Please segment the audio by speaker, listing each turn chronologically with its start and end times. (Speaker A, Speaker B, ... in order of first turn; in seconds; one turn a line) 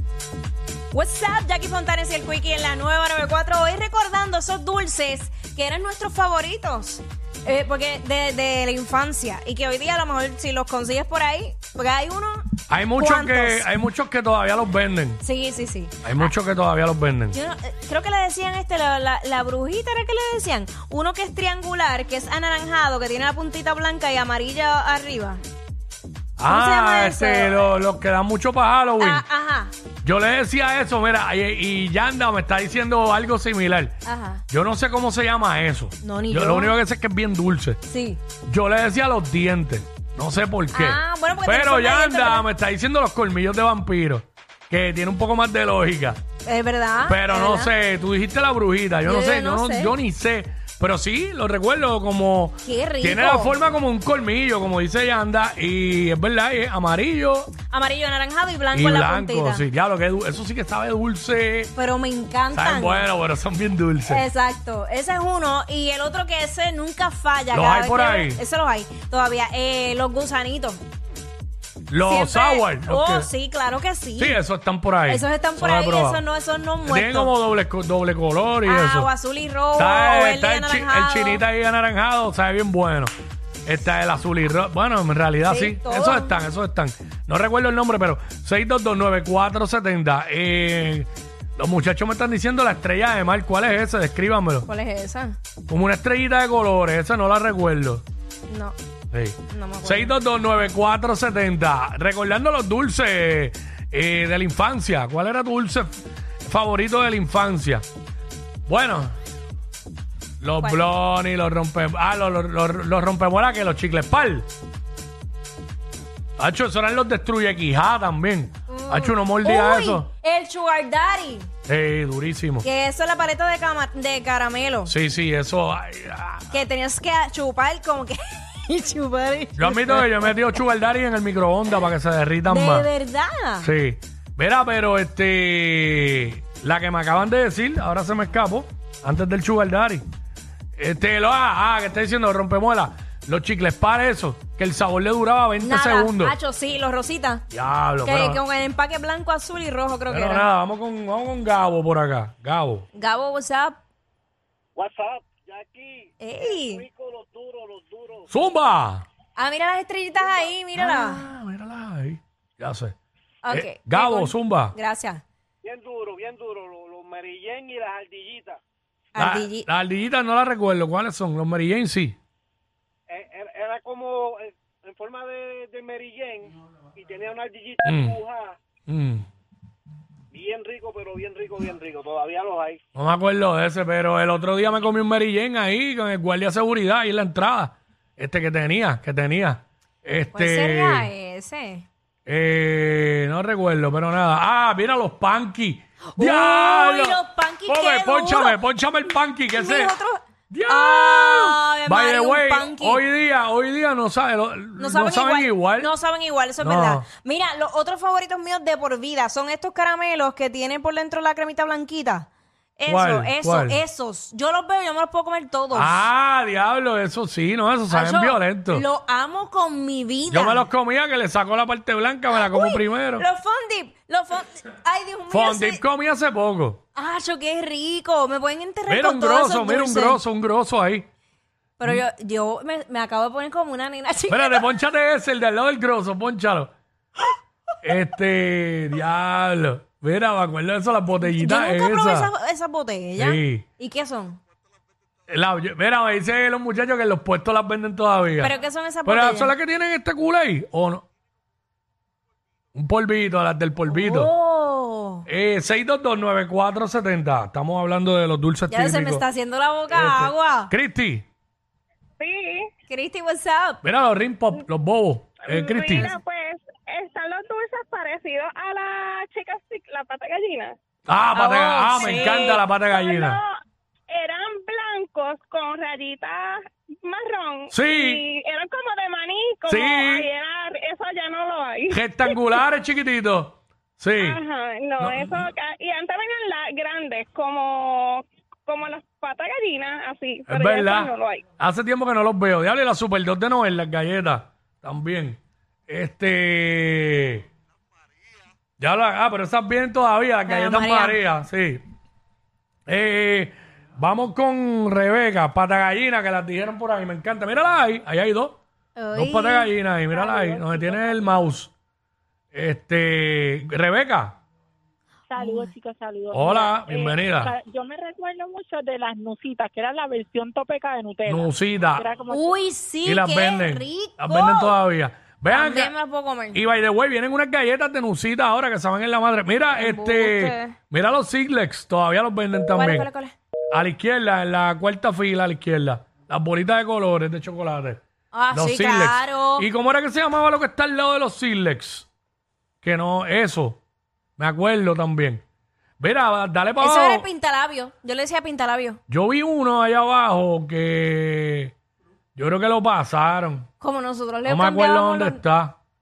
Speaker A: 0.9-13.7
Speaker B: 12.7-15.2
Speaker A: 15.2-16.3
Speaker B: 16.0-17.4
Speaker A: 17.3-25.4
Speaker B: 26.4-29.2
Speaker A: 26.4-27.7
Speaker A: 29.0-29.7
Speaker B: 30.0-33.9
Speaker A: 34.0-34.4
Speaker B: 34.5-37.8
Speaker A: 36.0-36.8
Speaker A: 37.9-38.2
Speaker B: 38.4-46.2
Speaker A: 40.7-42.5
Speaker A: 46.4-47.7
Speaker B: 47.0-57.5
Speaker A: 49.0-49.9
Speaker A: 52.6-53.6
Speaker A: 57.7-59.6
Speaker B: 58.7-61.7
Speaker A: 61.8-63.1
Speaker B: 62.5-64.2
Speaker A: 64.1-70.8
Speaker B: 67.5-68.4
Speaker B: 71.9-73.3
Speaker A: 72.0-74.4
Speaker B: 74.2-76.2
Speaker A: 75.1-77.3
Speaker B: 76.8-79.1
Speaker A: 78.6-81.4
Speaker B: 79.8-83.1
Speaker B: 83.7-94.7
Speaker A: 85.4-86.3
Speaker A: 94.6-95.3
Speaker B: 95.7-98.0
Speaker A: 98.5-98.8
Speaker B: 99.1-105.9
Speaker A: 99.5-100.1
Speaker B: 106.4-107.8
Speaker B: 108.7-109.1
Speaker B: 110.4-114.5
Speaker B: 116.4-120.1
Speaker A: 118.7-121.5
Speaker B: 121.7-122.7
Speaker A: 122.6-124.9
Speaker B: 124.8-126.6
Speaker A: 126.5-130.6
Speaker B: 129.6-132.9
Speaker A: 132.5-133.7
Speaker B: 133.6-140.0
Speaker B: 140.8-146.3
Speaker A: 145.6-147.4
Speaker B: 147.5-148.4
Speaker A: 148.0-150.5
Speaker B: 150.1-152.8
Speaker A: 152.9-153.8
Speaker C: 154.8-158.3
Speaker A: 156.2-156.8
Speaker B: 158.3-159.1
Speaker A: 159.3-161.2
Speaker B: 160.7-162.9
Speaker A: 163.4-165.2
Speaker B: 163.5-164.7
Speaker C: 165.6-168.6
Speaker A: 169.1-169.7
Speaker B: 169.2-172.2
Speaker C: 173.1-178.6
Speaker B: 177.8-178.2
Speaker B: 178.9-179.2
Speaker C: 180.3-182.8
Speaker B: 182.9-191.1
Speaker A: 190.3-191.8
Speaker B: 192.3-199.9
Speaker A: 196.1-198.6
Speaker A: 199.5-203.0
Speaker B: 200.5-205.9
Speaker A: 204.8-216.0
Speaker B: 206.6-207.1
Speaker B: 212.9-213.8
Speaker B: 215.7-218.8
Speaker A: 217.9-220.7
Speaker B: 220.3-223.2
Speaker A: 222.3-225.8
Speaker B: 225.3-226.8
Speaker A: 226.9-230.2
Speaker B: 228.9-231.1
Speaker A: 231.8-234.6
Speaker B: 234.3-236.7
Speaker B: 237.8-242.3
Speaker A: 241.1-244.4
Speaker B: 243.2-243.6
Speaker B: 245.3-248.5
Speaker A: 248.4-249.5
Speaker B: 249.1-251.0
Speaker B: 252.7-254.3
Speaker A: 253.9-255.2
Speaker B: 255.3-259.2
Speaker A: 258.7-260.7
Speaker B: 259.9-261.2
Speaker D: 262.2-262.7
Speaker A: 262.9-263.8
Speaker B: 263.8-266.1
Speaker D: 265.4-270.8
Speaker B: 271.1-273.4
Speaker A: 271.3-272.6
Speaker D: 272.9-273.5
Speaker D: 274.1-282.4
Speaker B: 277.7-278.2
Speaker B: 279.7-280.3
Speaker B: 281.9-284.4
Speaker D: 284.2-291.4
Speaker B: 285.0-285.5
Speaker B: 290.5-297.4
Speaker B: 298.8-301.8
Speaker A: 300.4-301.2
Speaker B: 302.9-308.6
Speaker A: 308.9-309.7
Speaker B: 309.1-311.7
Speaker E: 310.1-311.2
Speaker B: 312.5-314.4
Speaker E: 315.3-322.6
Speaker A: 315.4-315.7
Speaker B: 316.3-317.5
Speaker B: 321.3-322.0
Speaker A: 322.3-324.7
Speaker B: 323.0-325.9
Speaker A: 325.5-326.6
Speaker B: 326.5-333.1
Speaker A: 329.7-330.7
Speaker A: 332.8-333.3
Speaker B: 333.7-338.0
Speaker A: 338.3-339.6
Speaker B: 338.5-342.1
Speaker B: 342.8-343.8
Speaker B: 344.4-345.4
Speaker B: 346.0-347.2
Speaker A: 346.8-349.0
Speaker B: 349.1-351.7
Speaker B: 352.4-353.7
Speaker A: 353.8-355.4
Speaker B: 354.4-355.8